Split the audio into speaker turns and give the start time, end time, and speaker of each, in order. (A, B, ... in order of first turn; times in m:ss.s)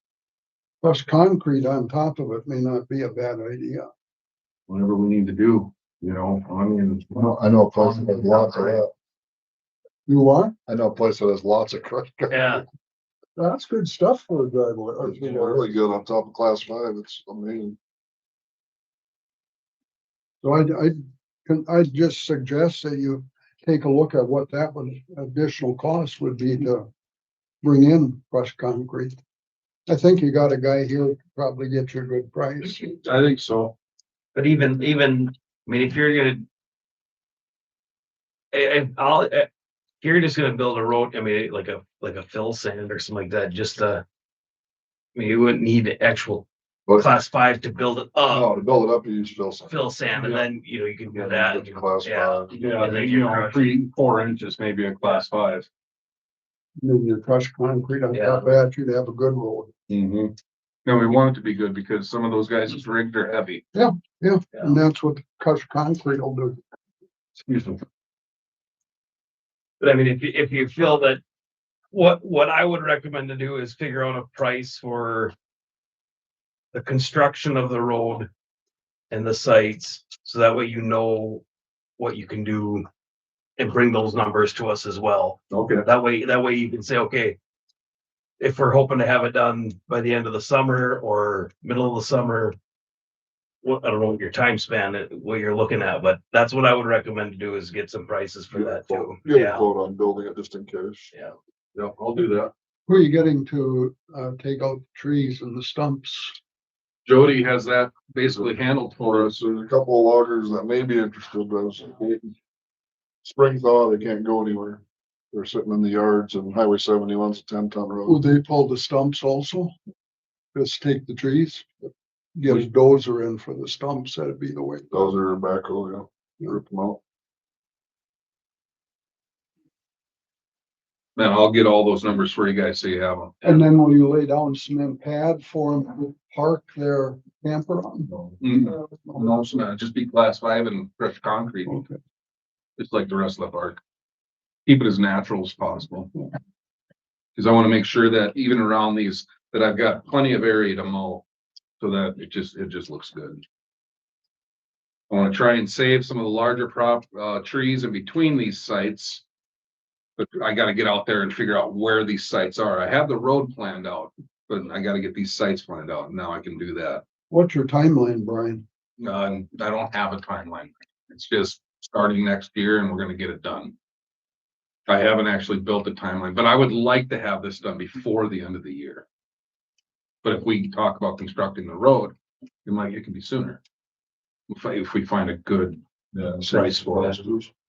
0:00.8-0:03.9 A
0:04.7-0:08.8 B
0:07.1-0:08.9 C
0:10.1-0:10.5 A
0:10.7-0:12.6 C
0:12.3-0:12.6 D
0:13.4-0:15.7 A
0:15.0-0:17.8 C
0:20.4-0:26.9 A
0:27.6-0:29.2 A
0:29.9-0:32.8 A
0:32.8-0:33.7 B
0:34.3-0:36.4 D
0:38.5-0:39.5 D
0:40.0-0:44.0 D
0:45.1-0:48.5 D
0:46.9-0:47.1 C
0:48.3-0:49.7 C
0:49.7-0:53.6 D
0:51.1-0:52.6 C
0:52.5-0:55.7 B
0:56.8-0:59.7 A
0:58.1-0:58.4 D
0:59.9-1:00.3 B
1:00.8-1:03.6 B
1:03.7-1:06.6 A
1:07.4-1:07.8 B
1:09.8-1:11.2 D
1:11.9-1:15.3 D
1:16.7-1:18.3 D
1:19.1-1:21.4 D
1:22.0-1:22.9 D
1:23.6-1:27.4 D
1:25.5-1:25.8 B
1:28.4-1:32.6 D
1:33.6-1:39.7 D
1:38.5-1:41.1 C
1:41.7-1:42.5 B
1:42.9-1:46.4 A
1:47.0-1:49.3 B
1:49.1-1:52.3 C
1:53.2-1:58.2 C
1:58.0-1:59.7 A
2:00.5-2:01.7 A
2:02.4-2:05.1 A
2:04.9-2:07.0 C
2:11.2-2:13.6 B
2:13.4-2:18.1 A
2:18.4-2:21.8 B
2:21.7-2:21.9 A
2:22.8-2:23.8 B
2:24.6-2:26.1 B
2:27.4-2:31.2 B
2:31.8-2:33.4 B
2:35.1-2:39.2 B
2:40.2-2:47.0 B
2:47.3-2:48.6 A
2:49.0-2:53.7 B
2:54.9-2:59.0 B
3:00.2-3:03.6 B
3:04.5-3:05.8 B
3:06.1-3:07.5 C
3:06.4-3:07.2 B